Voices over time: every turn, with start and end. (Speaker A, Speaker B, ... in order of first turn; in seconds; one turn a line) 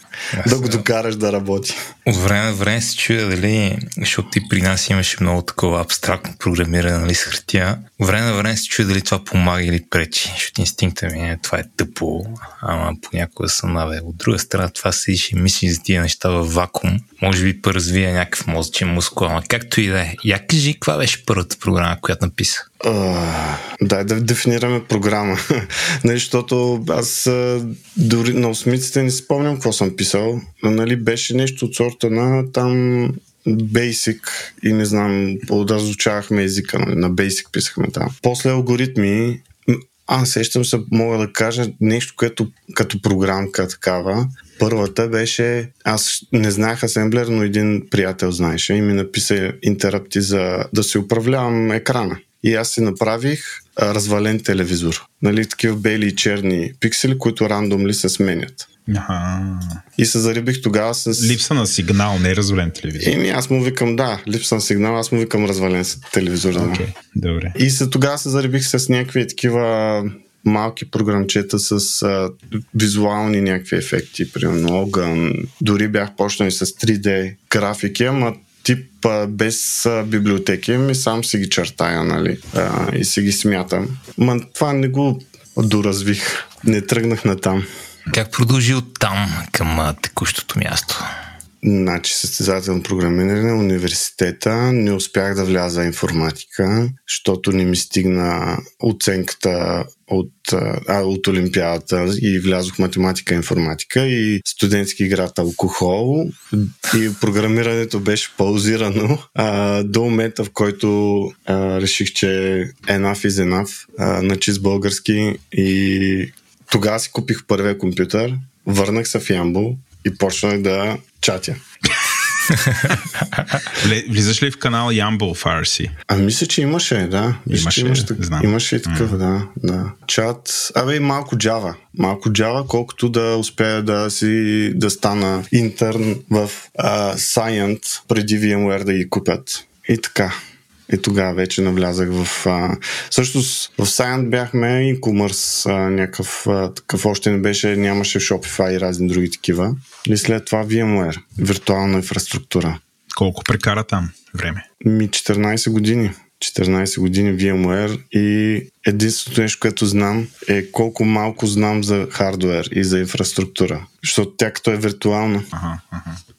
Speaker A: 0.3-0.8
Speaker B: 0.4-1.8
Speaker A: 2.1-22.6
Speaker B: 22.8-58.7
Speaker C: 58.9-59.8
Speaker B: 60.0-61.4
Speaker C: 61.1-63.1
Speaker B: 63.0-66.8
Speaker C: 66.5-67.6
Speaker B: 67.5-87.7
Speaker A: 88.1-91.1
Speaker B: 91.6-121.6
Speaker C: 123.7-125.9
Speaker B: 126.1-140.4
Speaker C: 127.5-129.2
Speaker B: 140.9-152.8
Speaker C: 153.1-154.6
Speaker B: 154.8-165.5
Speaker C: 165.5-166.2